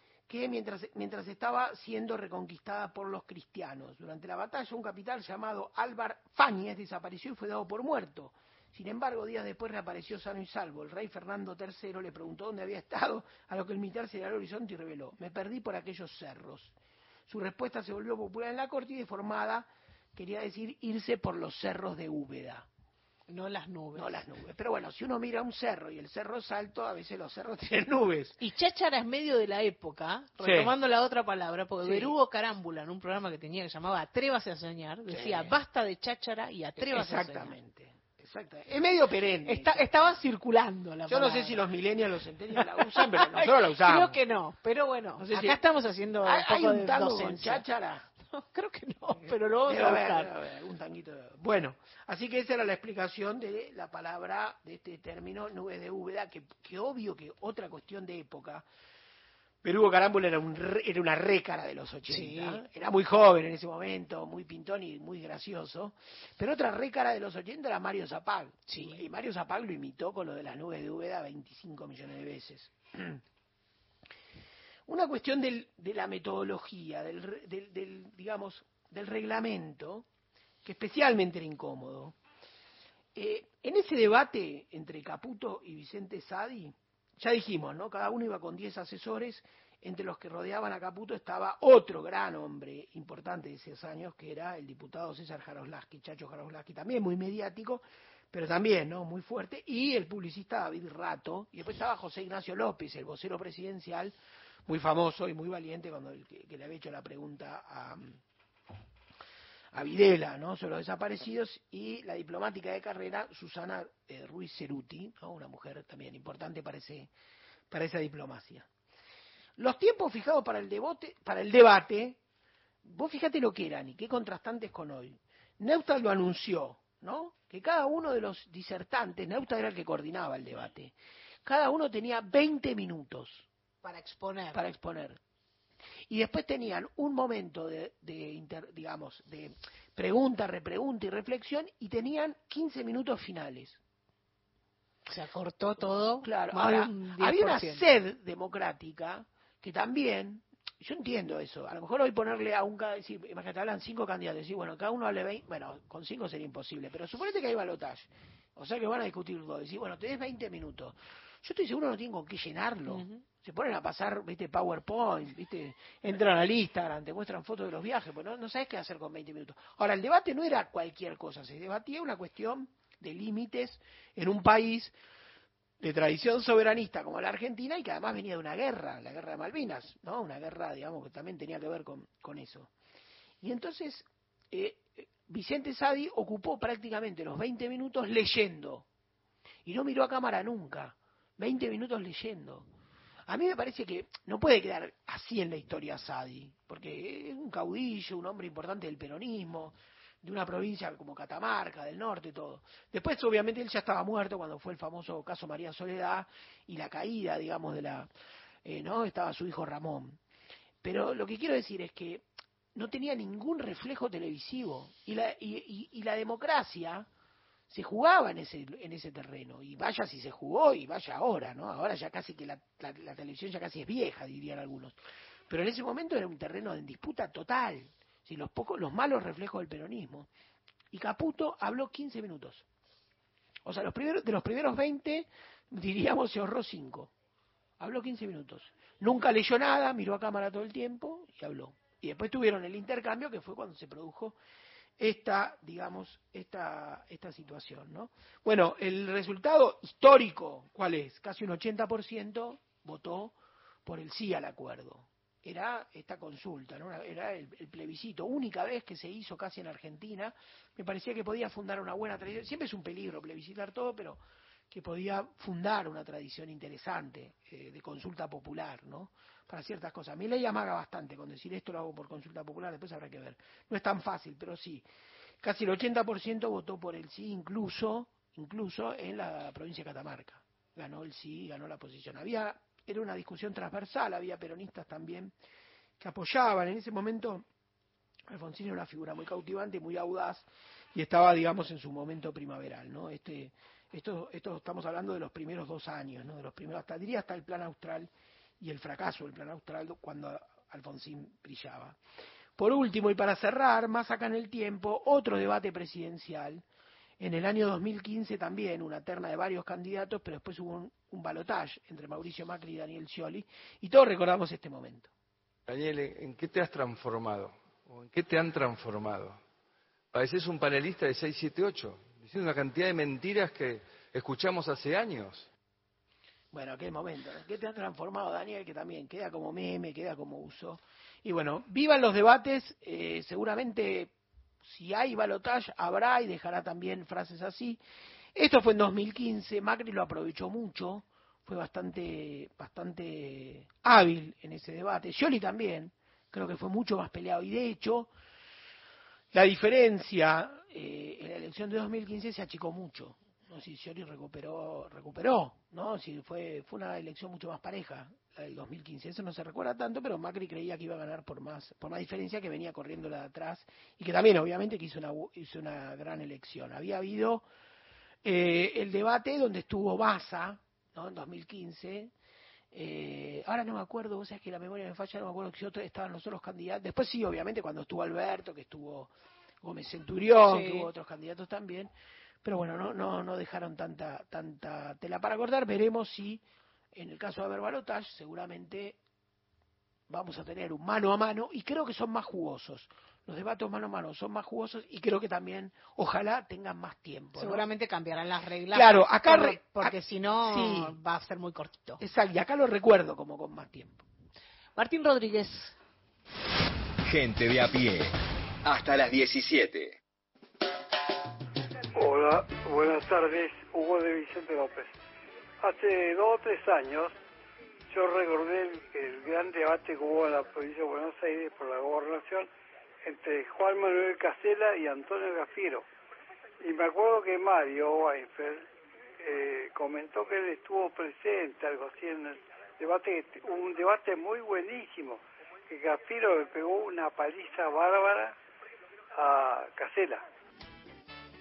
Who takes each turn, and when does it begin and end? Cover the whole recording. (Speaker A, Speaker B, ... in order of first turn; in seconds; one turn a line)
Speaker A: 0.3-16.7
Speaker A: 17.3-22.7
Speaker B: 23.3-24.2
Speaker A: 23.9-28.4
Speaker B: 28.4-37.6
Speaker A: 30.4-30.7
Speaker A: 31.8-32.1
Speaker A: 35.1-35.6
Speaker A: 36.8-39.9
Speaker B: 39.5-41.6
Speaker A: 41.1-44.2
Speaker B: 42.6-47.6
Speaker A: 45.2-45.6
Speaker A: 46.2-48.1
Speaker B: 48.3-50.3
Speaker A: 49.1-58.6
Speaker A: 59.6-73.2
Speaker B: 62.1-62.6
Speaker B: 68.7-69.0
Speaker A: 74.9-80.1
Speaker A: 80.7-82.2
Speaker A: 83.2-104.2
Speaker A: 104.7-108.2
Speaker A: 109.7-117.1
Speaker A: 117.7-118.7
Speaker A: 119.6-122.2
Speaker A: 122.8-130.9
Speaker A: 131.5-133.5
Speaker B: 133.8-134.7
Speaker A: 134.5-135.2
Speaker A: 136.1-143.8
Speaker B: 145.1-147.8
Speaker A: 146.2-174.9
Speaker B: 162.9-163.2
Speaker A: 175.8-182.7
Speaker A: 183.4-188.9
Speaker A: 189.7-192.7
Speaker A: 193.3-208.1
Speaker A: 208.7-210.2
Speaker A: 210.8-217.1
Speaker A: 217.7-225.0
Speaker A: 225.5-230.3
Speaker A: 230.9-232.7
Speaker A: 233.7-237.1
Speaker A: 237.8-244.4
Speaker A: 245.0-253.3
Speaker A: 253.9-274.9
Speaker A: 275.4-285.3
Speaker A: 286.0-287.4
Speaker A: 288.3-302.0
Speaker A: 302.6-306.6
Speaker A: 307.2-315.1
Speaker C: 315.7-319.3
Speaker C: 320.2-323.6
Speaker C: 324.2-325.4
Speaker A: 326.5-334.1
Speaker A: 334.6-337.8
Speaker A: 338.4-348.1
Speaker A: 349.3-367.4
Speaker A: 368.2-372.1
Speaker A: 372.7-379.1
Speaker A: 379.6-381.9
Speaker B: 380.4-380.9
Speaker A: 382.4-386.4
Speaker A: 386.9-389.0
Speaker A: 390.1-397.6
Speaker B: 397.4-402.0
Speaker A: 398.7-400.9
Speaker A: 402.0-404.1
Speaker B: 404.8-405.8
Speaker D: 407.1-410.0
Speaker E: 412.0-414.9
Speaker E: 415.6-417.1
Speaker E: 417.9-422.5
Speaker E: 423.1-425.9
Speaker E: 426.6-428.6
Speaker E: 429.2-438.4
Speaker E: 439.2-440.2